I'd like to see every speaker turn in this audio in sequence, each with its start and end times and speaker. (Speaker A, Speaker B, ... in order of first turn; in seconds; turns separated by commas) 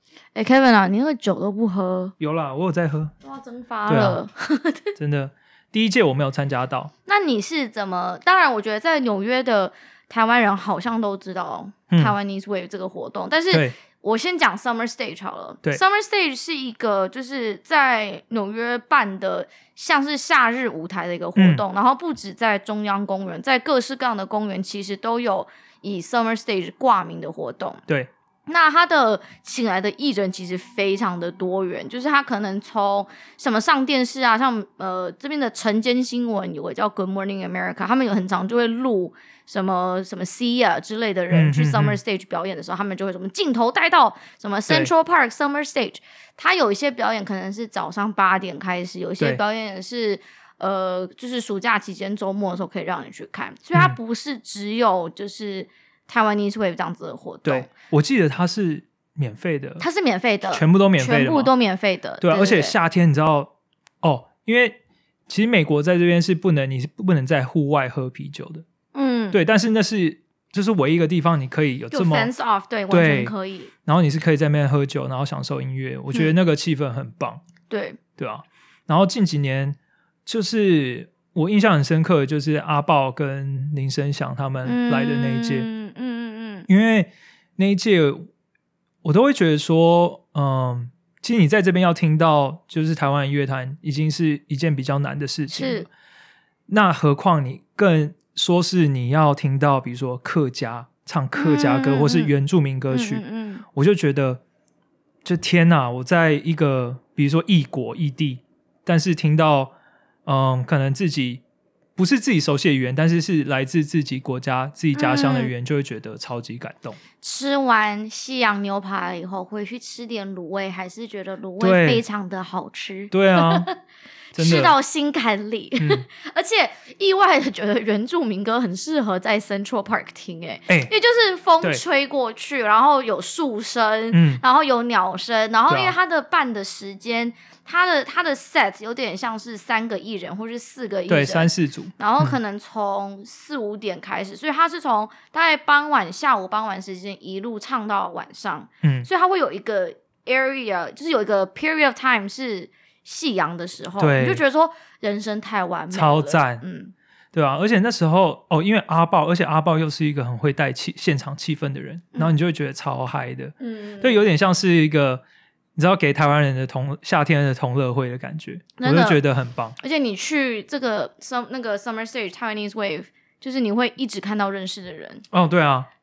Speaker A: 0.3-2.1, Speaker B: 2.2-3.1, Speaker A: 3.2-4.9, Speaker B: 3.9-4.2, Speaker B: 5.0-6.9, Speaker A: 7.0-27.8, Speaker B: 11.9-12.2, Speaker B: 21.4-21.6, Speaker A: 28.5-57.7, Speaker B: 41.3-42.0, Speaker B: 57.4-59.8, Speaker A: 59.8-62.7, Speaker B: 60.5-61.5, Speaker B: 62.2-63.5, Speaker B: 64.0-68.6, Speaker A: 68.9-69.4, Speaker B: 69.3-72.3, Speaker A: 71.9-73.7, Speaker B: 72.9-73.3, Speaker B: 73.8-77.4, Speaker A: 77.7-78.0, Speaker B: 78.2-85.7, Speaker A: 84.6-86.7, Speaker B: 86.7-88.3, Speaker B: 89.0-95.9, Speaker A: 95.5-95.9, Speaker B: 96.7-104.4, Speaker A: 101.3-102.3, Speaker A: 102.9-103.6, Speaker B: 105.2-109.7, Speaker B: 110.2-111.4, Speaker B: 112.0-117.0, Speaker A: 114.9-115.5, Speaker A: 117.2-123.7, Speaker B: 121.6-122.0, Speaker B: 123.1-123.7, Speaker B: 124.3-124.8, Speaker A: 124.3-156.9, Speaker B: 125.8-126.0, Speaker B: 134.1-134.4, Speaker B: 135.7-135.9, Speaker B: 141.1-142.4, Speaker B: 148.8-149.1, Speaker B: 154.0-154.4, Speaker B: 155.9-156.6, Speaker B: 157.3-165.2, Speaker A: 163.6-164.3, Speaker B: 165.8-169.8, Speaker A: 168.8-169.2, Speaker A: 169.8-175.2, Speaker B: 175.3-175.9